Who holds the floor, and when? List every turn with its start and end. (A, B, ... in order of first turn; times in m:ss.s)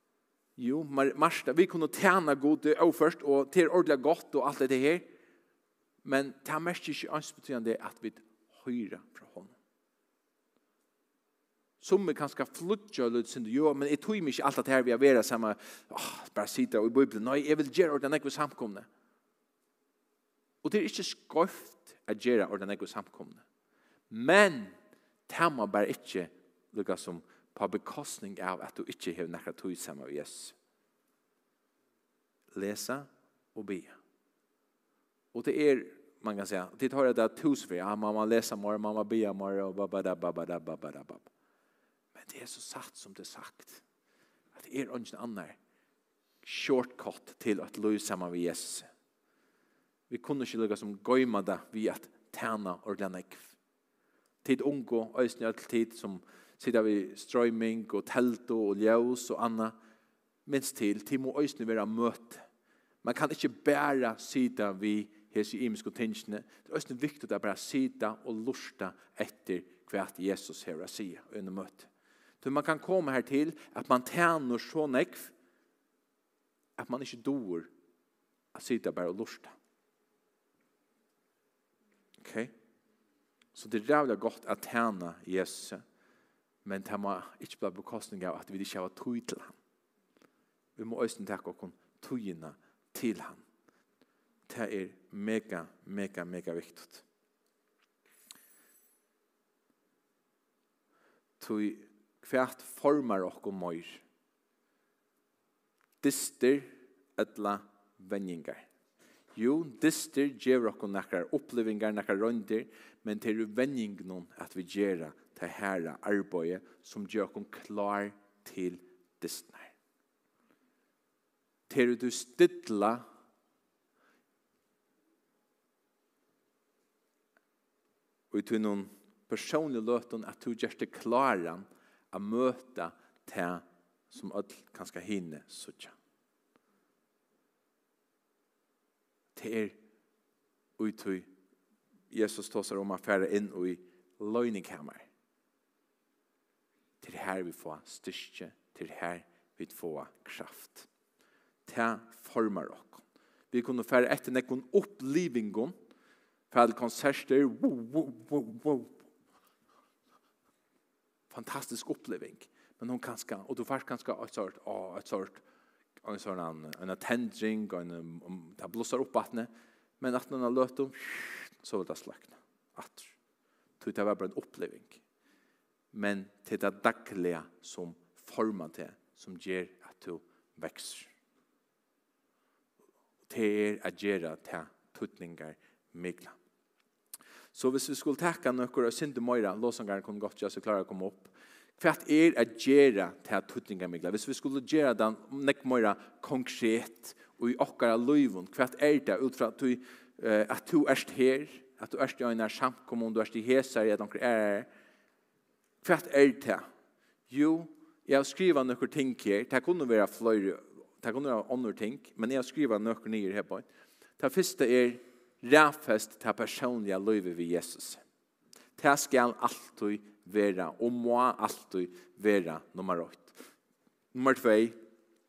0:00.6-0:05.1 A
0:06.0-0:09.5 A
0:11.8-0:18.9 A
0:20.6-0:23.4 A
0:24.1-0:24.8 A
0:25.3-0:30.6 A
0:32.5-0:34.0 A
0:35.3-0:41.3 A
0:42.2-0:43.8 A
0:44.6-0:45.6 A
0:46.4-0:48.9 A
0:50.1-0:53.5 A
0:54.4-0:59.8 A
1:00.5-1:02.4 A
1:03.0-1:11.9 A
1:12.4-1:15.3 A
1:16.8-1:17.7 A
1:18.5-1:19.5 A
1:22.2-1:22.5 A
1:23.5-1:25.8 A
1:26.6-1:29.6 A
1:30.8-1:33.4 A
1:34.5-1:37.0 A
1:41.4-1:44.0 A
1:46.0-1:48.7 A
1:49.4-1:59.7 A
2:01.7-2:03.0 A
2:08.3-2:16.0 A
2:19.4-2:19.8 A
2:20.8-2:21.3 A
2:22.1-2:25.1 A
2:27.0-2:30.9 A
2:31.7-2:35.8 A
2:36.5-2:39.0 A
2:41.3-2:45.4 A
2:46.0-2:49.5 A
2:50.0-2:53.1 A
2:53.8-2:55.0 A
2:55.9-3:01.1 A
3:03.3-3:06.4 A
3:07.5-3:24.7 A
3:25.8-3:26.6 A
3:27.3-3:38.0 A
3:38.8-3:43.4 A
3:44.1-3:44.8 A